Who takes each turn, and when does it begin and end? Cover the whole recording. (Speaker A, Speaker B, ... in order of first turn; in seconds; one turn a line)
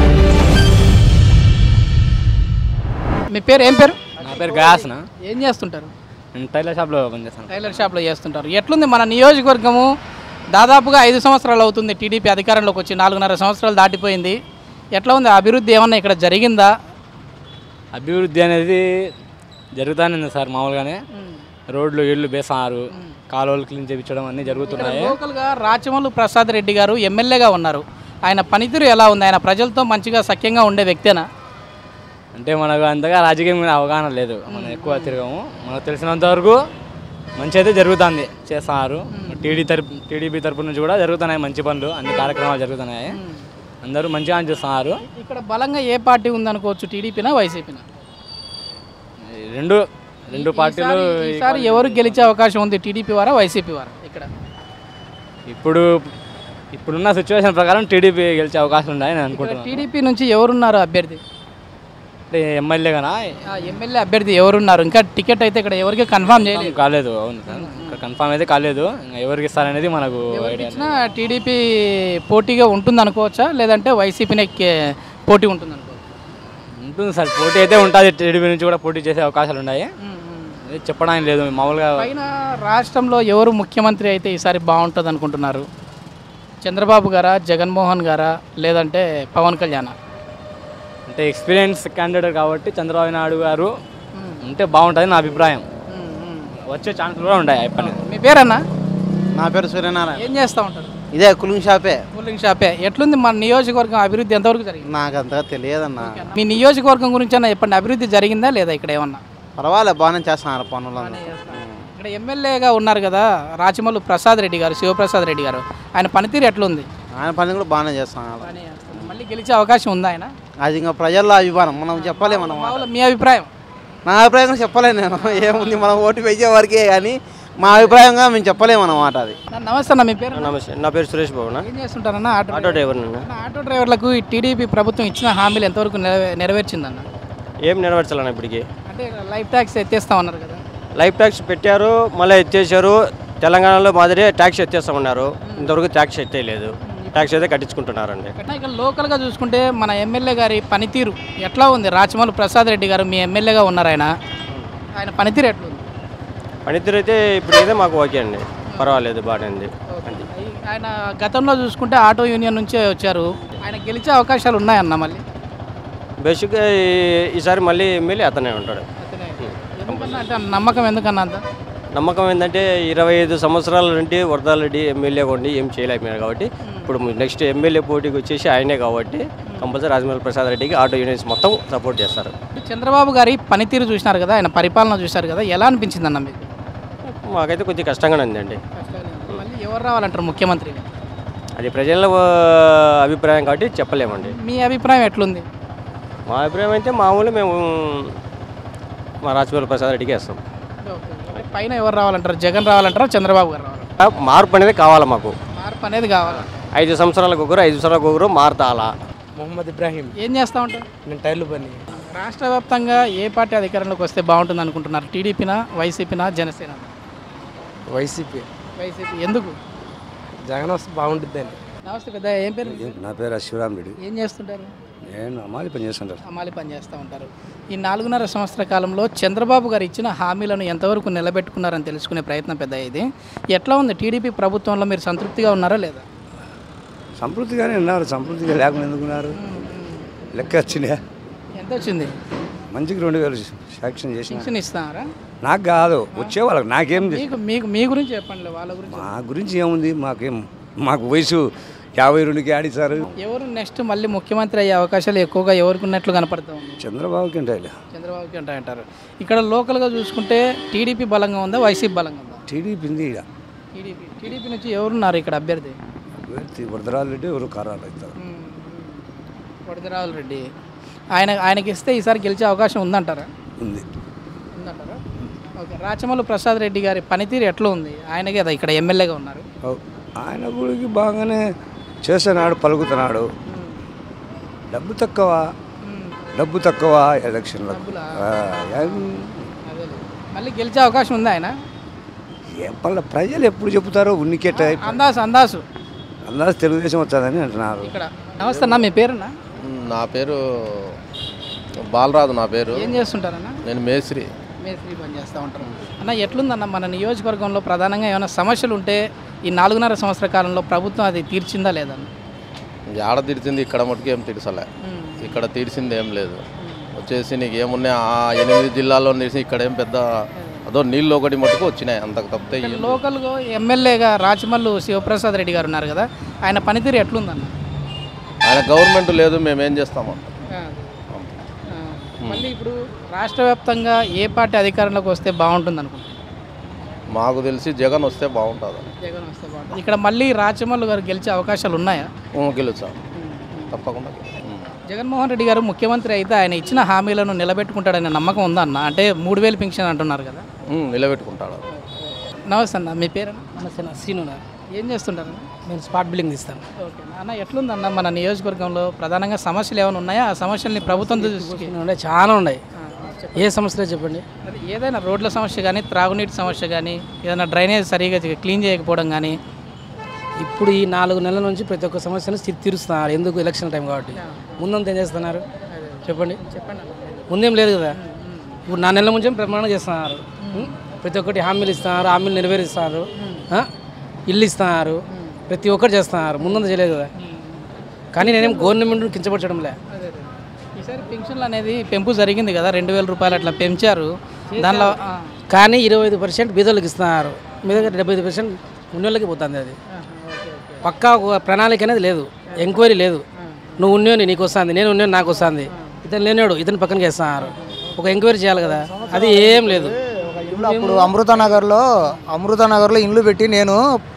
Speaker A: 3.3-4.7
Speaker B: 4.2-5.0
Speaker A: 5.2-5.9
Speaker B: 6.3-7.8
Speaker A: 7.5-9.9
Speaker A: 10.5-14.4
Speaker A: 14.9-16.7
Speaker B: 17.9-18.8
Speaker B: 19.8-21.0
Speaker A: 21.1-21.4
Speaker B: 21.7-25.1
Speaker A: 24.4-31.2
Speaker B: 32.3-36.6
Speaker A: 34.5-35.2
Speaker B: 37.4-43.1
Speaker A: 39.1-39.5
Speaker A: 42.0-42.4
Speaker A: 43.1-43.5
Speaker B: 43.8-44.9
Speaker A: 45.0-47.8
Speaker B: 49.5-49.8
Speaker B: 50.3-52.3
Speaker A: 50.3-54.3
Speaker B: 55.5-56.1
Speaker B: 56.7-59.8
Speaker A: 59.3-61.2
Speaker B: 62.3-63.2
Speaker A: 63.5-66.8
Speaker B: 66.5-70.8
Speaker A: 67.5-68.0
Speaker A: 70.3-76.0
Speaker B: 76.8-79.9
Speaker A: 80.0-80.6
Speaker B: 80.7-82.0
Speaker A: 82.0-85.7
Speaker A: 86.6-89.9
Speaker B: 91.1-93.7
Speaker A: 94.2-94.4
Speaker B: 94.4-95.6
Speaker A: 95.9-96.5
Speaker B: 96.7-98.0
Speaker A: 97.8-98.6
Speaker C: 99.4-100.2
Speaker A: 100.2-101.0
Speaker C: 101.1-102.0
Speaker A: 102.1-104.8
Speaker C: 104.9-106.1
Speaker A: 106.0-109.2
Speaker C: 109.6-111.0
Speaker A: 111.0-116.9
Speaker C: 117.2-118.4
Speaker A: 118.4-120.3
Speaker C: 120.7-122.6
Speaker A: 121.9-123.5
Speaker C: 124.1-127.1
Speaker A: 125.2-126.0
Speaker A: 127.7-128.0
Speaker C: 127.7-129.3
Speaker A: 128.6-130.6
Speaker D: 130.3-131.7
Speaker A: 131.6-137.0
Speaker D: 132.5-133.3
Speaker D: 137.6-138.7
Speaker A: 138.9-140.6
Speaker D: 140.9-148.3
Speaker A: 145.4-145.8
Speaker A: 146.8-147.5
Speaker A: 148.4-154.1
Speaker A: 155.0-155.8
Speaker D: 156.7-160.3
Speaker A: 158.7-159.0
Speaker A: 159.9-165.2
Speaker D: 166.2-168.8
Speaker A: 169.0-171.4
Speaker D: 169.4-170.3
Speaker D: 171.9-182.3
Speaker A: 176.6-177.0
Speaker A: 182.5-186.5
Speaker D: 187.0-188.6
Speaker A: 188.8-190.9
Speaker D: 191.6-194.3
Speaker A: 194.1-195.4
Speaker D: 196.3-198.1
Speaker D: 199.2-200.4
Speaker A: 200.8-203.9
Speaker D: 204.0-205.3
Speaker A: 205.6-206.5
Speaker D: 206.3-208.9
Speaker E: 209.4-210.1
Speaker A: 210.2-210.9
Speaker E: 211.1-211.7
Speaker A: 211.9-216.9
Speaker E: 217.9-218.4
Speaker A: 218.8-219.6
Speaker E: 220.5-221.5
Speaker A: 221.8-222.9
Speaker F: 222.7-223.9
Speaker A: 224.0-224.7
Speaker F: 225.1-226.2
Speaker A: 226.3-236.0
Speaker F: 237.2-239.4
Speaker A: 239.3-240.1
Speaker F: 240.3-241.0
Speaker A: 241.6-242.1
Speaker F: 242.7-244.5
Speaker A: 244.3-245.1
Speaker F: 245.4-247.3
Speaker A: 246.9-249.1
Speaker F: 248.9-251.4
Speaker F: 252.0-253.1
Speaker A: 253.2-256.8
Speaker F: 256.8-257.7
Speaker A: 257.9-262.4
Speaker F: 262.5-263.2
Speaker A: 263.7-265.8
Speaker F: 266.3-268.1
Speaker A: 268.2-269.0
Speaker A: 269.7-270.4
Speaker A: 271.1-273.3
Speaker F: 273.6-273.8
Speaker A: 274.6-275.0
Speaker A: 275.6-279.4
Speaker F: 279.6-281.4
Speaker F: 282.0-283.3
Speaker A: 283.5-283.8
Speaker F: 284.7-285.4
Speaker A: 285.8-286.2
Speaker F: 286.3-289.5
Speaker A: 287.7-288.1
Speaker A: 289.7-291.5
Speaker F: 292.5-295.0
Speaker A: 294.5-295.6
Speaker F: 296.2-297.9
Speaker A: 297.8-299.3
Speaker G: 298.4-298.8
Speaker G: 299.6-300.9
Speaker G: 301.8-302.9
Speaker A: 302.7-303.6
Speaker G: 303.7-304.3
Speaker A: 304.6-312.1
Speaker G: 312.9-314.6
Speaker A: 314.8-315.4
Speaker G: 315.2-316.4
Speaker A: 316.6-316.9
Speaker G: 317.0-320.1
Speaker G: 320.7-323.0
Speaker A: 322.6-327.5
Speaker G: 328.4-330.3
Speaker A: 330.5-330.9
Speaker A: 331.7-336.1
Speaker G: 337.1-338.9
Speaker A: 339.0-342.1
Speaker G: 342.4-343.0
Speaker A: 343.2-343.8
Speaker G: 343.7-344.7
Speaker A: 344.9-350.4
Speaker G: 350.7-351.6
Speaker A: 351.7-353.5
Speaker H: 353.6-354.4
Speaker A: 354.7-355.5
Speaker H: 355.7-356.6
Speaker A: 356.8-361.7
Speaker H: 360.8-362.6
Speaker A: 362.8-363.6
Speaker H: 363.4-364.2
Speaker A: 364.4-369.4
Speaker H: 370.4-375.4
Speaker A: 374.1-374.7
Speaker A: 375.7-377.2
Speaker H: 376.1-376.4
Speaker H: 377.3-377.9
Speaker A: 377.9-378.6
Speaker H: 378.7-383.7
Speaker A: 380.4-380.7
Speaker A: 383.2-383.4
Speaker H: 384.3-385.0
Speaker A: 385.1-385.4
Speaker H: 385.5-387.1
Speaker A: 386.4-387.7
Speaker H: 388.1-389.7
Speaker A: 388.2-388.8
Speaker A: 389.9-395.3
Speaker H: 394.6-394.9
Speaker H: 395.5-399.7
Speaker A: 399.9-400.9
Speaker H: 400.8-403.2
Speaker A: 402.5-402.8
Speaker A: 403.5-403.8
Speaker H: 403.8-409.9
Speaker A: 407.4-407.7
Speaker I: 408.6-413.8
Speaker H: 410.5-411.0